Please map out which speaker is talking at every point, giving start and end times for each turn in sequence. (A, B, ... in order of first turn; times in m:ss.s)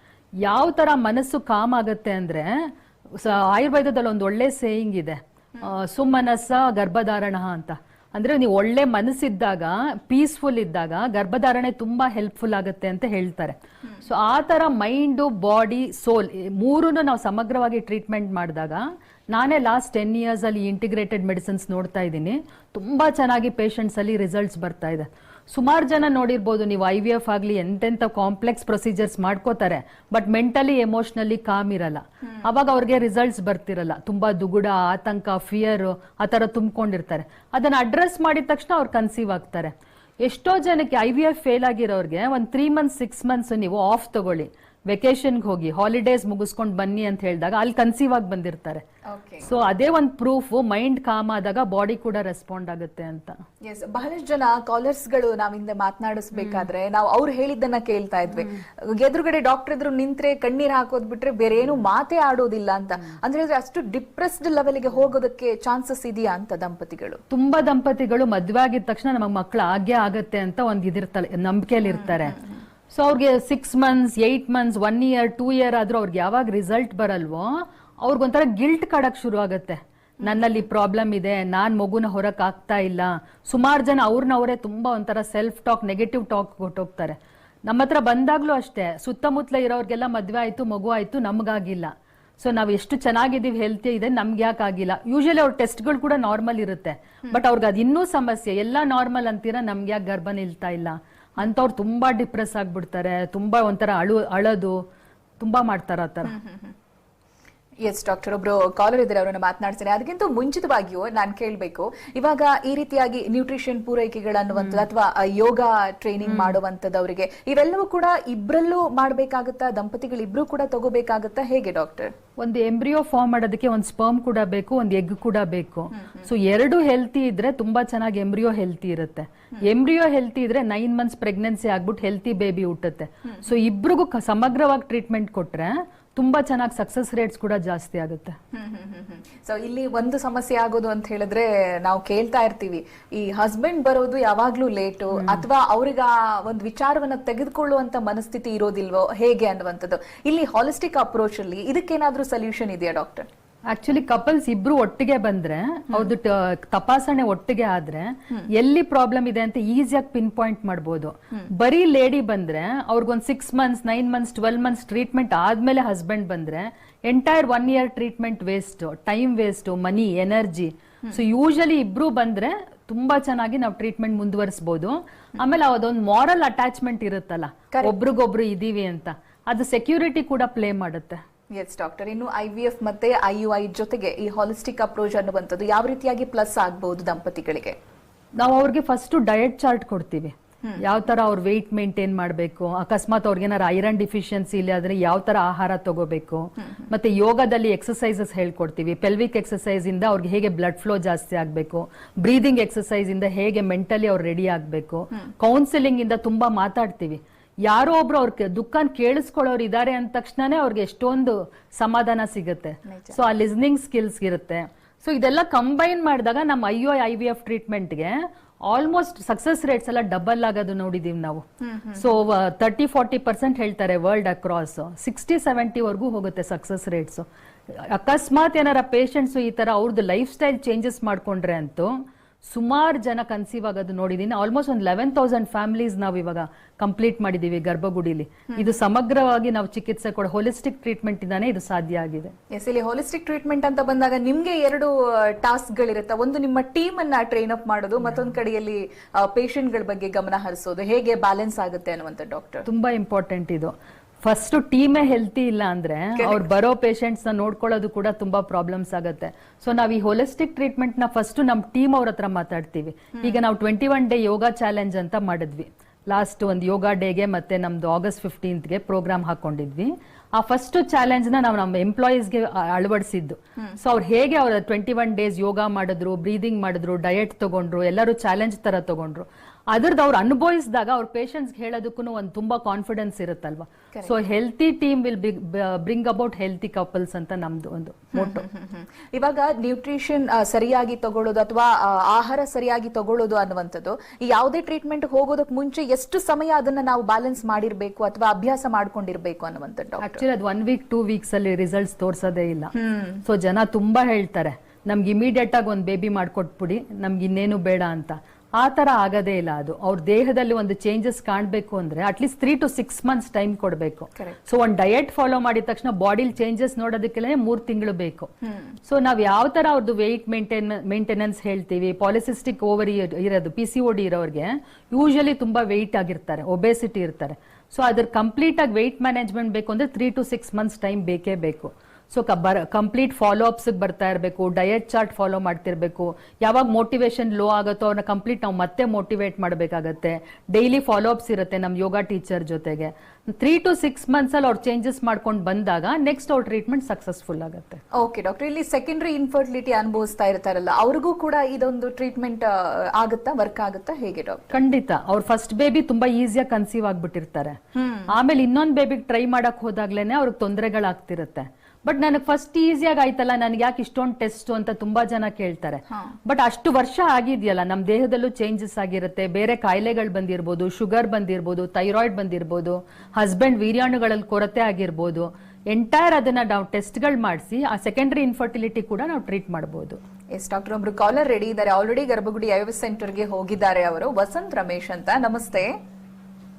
0:00.4-0:48.8 A
0:49.1-0:49.4 B
0:49.4-0:53.4 A
0:53.6-1:07.2 B
0:56.4-0:56.6 A
1:07.3-1:12.4 A
1:11.9-1:12.6 B
1:12.9-1:44.8 A
1:20.2-1:20.6 B
1:45.4-1:46.3 A
1:46.2-1:46.7 B
1:47.8-2:02.1 B
1:54.6-1:54.8 A
1:56.2-1:56.6 A
2:02.4-2:18.4 A
2:05.9-2:06.3 B
2:18.5-2:33.3 B
2:25.1-2:25.4 A
2:33.7-3:01.2 A
3:01.5-3:07.8 B
3:08.4-3:41.4 A
3:32.8-3:33.2 B
3:41.6-3:42.2 B
3:42.0-3:51.9 A
3:52.4-4:02.3 A
4:02.5-4:12.6 B
4:12.6-4:48.4 A
4:16.2-4:16.4 B
4:23.1-4:23.4 B
4:48.1-5:00.2 B
5:00.0-5:18.3 A
5:02.7-5:03.2 B
5:18.4-5:18.8 B
5:18.8-5:47.8 A
5:47.9-5:54.5 B
5:54.5-5:57.6 A
5:57.7-5:58.1 B
5:58.1-6:20.0 A
6:20.3-6:25.7 B